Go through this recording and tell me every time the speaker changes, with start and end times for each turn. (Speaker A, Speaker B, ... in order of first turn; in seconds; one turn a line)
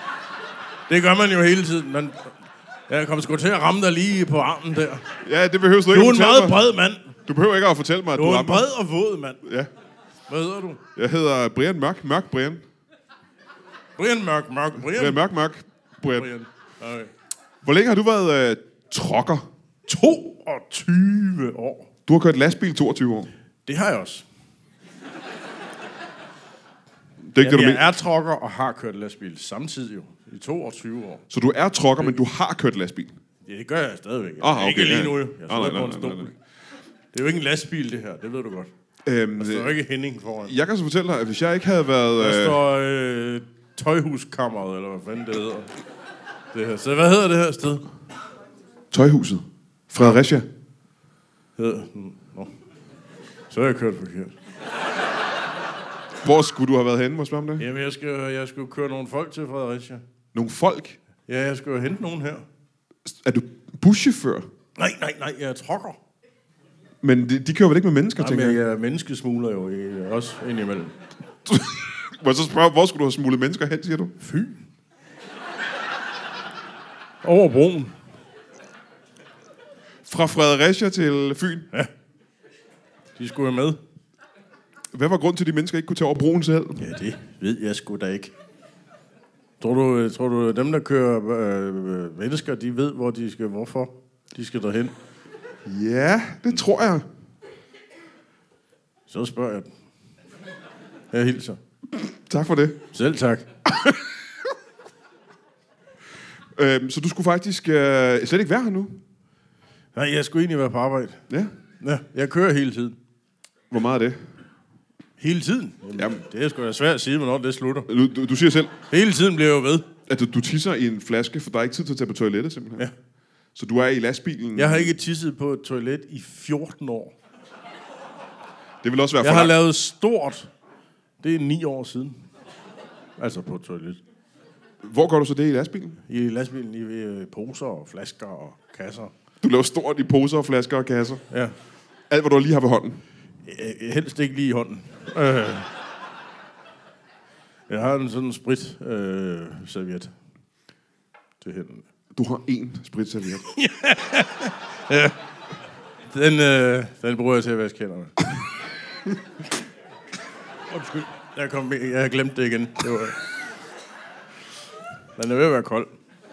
Speaker A: 0.9-2.3
Speaker A: 2.9-5.0
Speaker B: 5.2-6.6
Speaker A: 5.9-7.1
Speaker B: 7.3-8.7
Speaker A: 8.1-9.4
Speaker B: 9.4-9.7
Speaker A: 10.3-10.8
Speaker B: 10.9-12.6
Speaker A: 14.0-15.2
Speaker B: 14.9-16.3
Speaker A: 16.2-17.1
Speaker B: 17.6-19.4
Speaker A: 19.9-21.9
Speaker B: 22.1-23.3
Speaker A: 23.6-24.2
Speaker B: 27.3-27.8
Speaker A: 27.4-31.2
Speaker B: 31.3-33.1
Speaker A: 33.5-36.3
Speaker B: 34.4-36.3
Speaker A: 37.1-38.7
Speaker B: 39.0-39.7
Speaker A: 39.4-40.5
Speaker B: 40.4-42.6
Speaker A: 42.2-45.7
Speaker A: 46.5-47.8
Speaker B: 48.9-50.5
Speaker A: 51.6-52.5
Speaker A: 53.5-54.3
Speaker B: 56.2-57.6
Speaker A: 57.6-60.0
Speaker B: 60.3-61.0
Speaker A: 61.3-62.4
Speaker B: 63.1-64.5
Speaker A: 64.8-66.0
Speaker B: 67.0-68.6
Speaker A: 68.2-70.9
Speaker B: 71.5-74.1
Speaker A: 74.2-74.6
Speaker A: 77.2-77.9
Speaker B: 80.0-81.7
Speaker A: 83.2-83.8
Speaker B: 84.9-86.8
Speaker A: 86.8-88.3
Speaker A: 89.6-94.9
Speaker B: 95.7-97.0
Speaker A: 99.1-99.7
Speaker A: 101.1-101.6
Speaker B: 102.2-102.8
Speaker A: 102.9-103.5
Speaker B: 106.5-109.0
Speaker A: 109.9-111.2
Speaker A: 111.8-113.0
Speaker B: 113.7-114.2
Speaker A: 115.2-117.9
Speaker B: 116.0-116.2
Speaker B: 117.9-118.7
Speaker A: 118.9-119.9
Speaker B: 120.1-122.8
Speaker B: 123.5-124.9
Speaker A: 124.5-127.1
Speaker B: 128.8-129.5
Speaker A: 129.2-130.5
Speaker A: 131.2-132.2
Speaker A: 133.2-134.0
Speaker B: 134.8-136.0
Speaker A: 136.1-139.1
Speaker B: 139.4-141.2
Speaker B: 142.1-143.0
Speaker A: 143.4-145.7
Speaker A: 147.7-150.1
Speaker A: 151.4-151.8
Speaker B: 152.1-153.5
Speaker A: 153.5-155.2
Speaker A: 156.1-158.3
Speaker A: 160.7-163.2
Speaker A: 165.2-165.9